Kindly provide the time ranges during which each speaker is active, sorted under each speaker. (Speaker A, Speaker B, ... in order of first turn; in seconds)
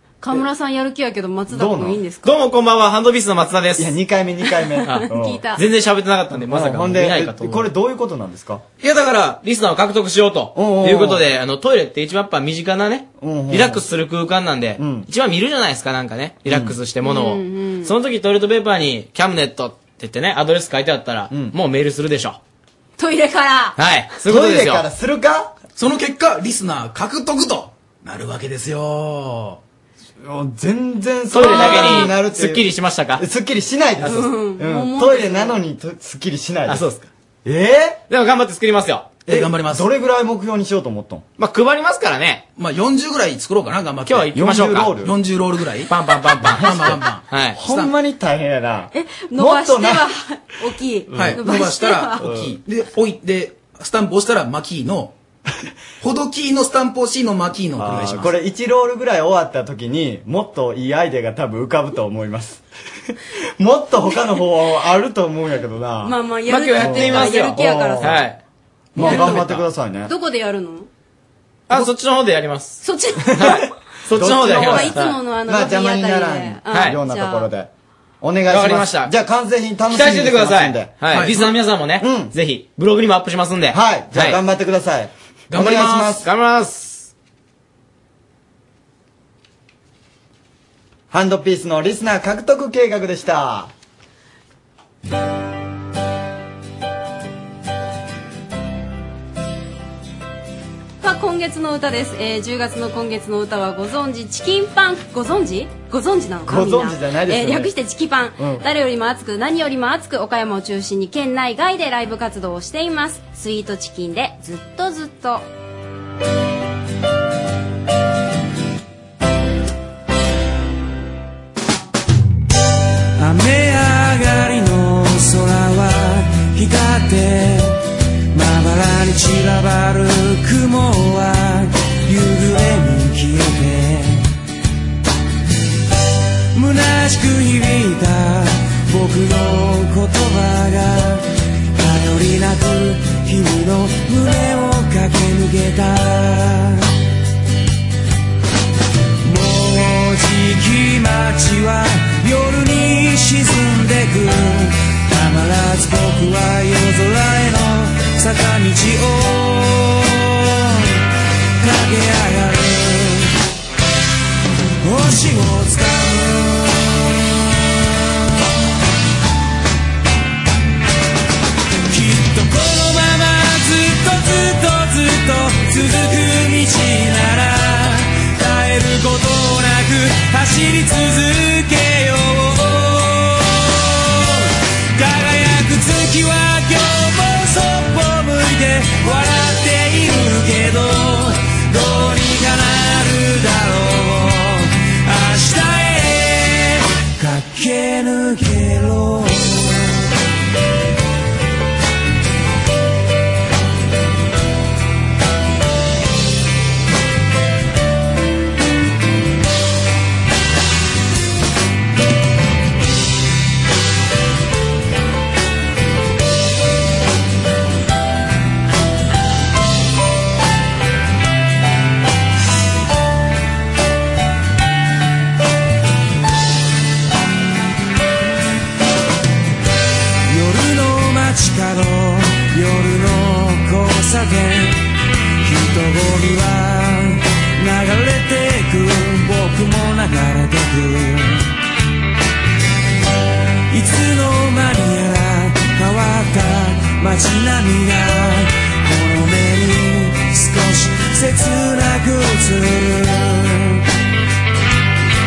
Speaker A: 0.2-2.4, 4.5-5.6, 17.0-17.9, 23.0-23.8, 31.4-32.1, 34.0-35.6, 48.9-52.3, 66.0-68.2, 69.0-69.5, 70.0-70.9, 72.8-73.6, 74.4-77.5, 101.0-115.5
Speaker B: 1.5-2.0, 3.8-5.4, 6.3-8.6, 10.6-11.2, 13.2-13.8, 14.8-15.1, 16.5-16.8, 24.3-25.5, 30.2-36.9, 37.5-38.0, 39.3-41.2, 44.3-45.1, 46.5-47.0, 47.5-50.1, 52.2-52.5, 57.8-62.6, 63.6-66.2, 66.8-68.3, 69.0-70.1, 73.3-77.7, 78.2-80.9, 82.0-82.3, 83.7-86.3, 91.1-93.7, 106.5-107.7, 108.4-108.7
Speaker C: 2.2-4.0, 4.8-7.7, 8.8-22.4, 23.8-24.9, 31.3-33.2, 36.7-37.1, 38.1-39.2, 41.4-42.4, 44.1-44.9, 45.9-47.6, 66.5-68.4, 69.0-69.6, 71.7-72.8, 73.3-75.2, 76.7-77.0, 78.5-79.1, 79.9-84.4, 85.9-87.1
Speaker D: 25.8-29.6, 39.3-39.9, 42.6-44.4, 44.9-47.9, 51.1-55.1, 56.0-58.3, 81.1-81.4, 85.5-86.2
Speaker E: 123.2-127.8, 128.3-134.3, 136.5-141.2, 141.8-146.9, 149.2-160.9, 161.6-163.3, 164.8-167.9, 171.9-199.9, 230.3-234.8, 235.4-241.5, 243.7-253.8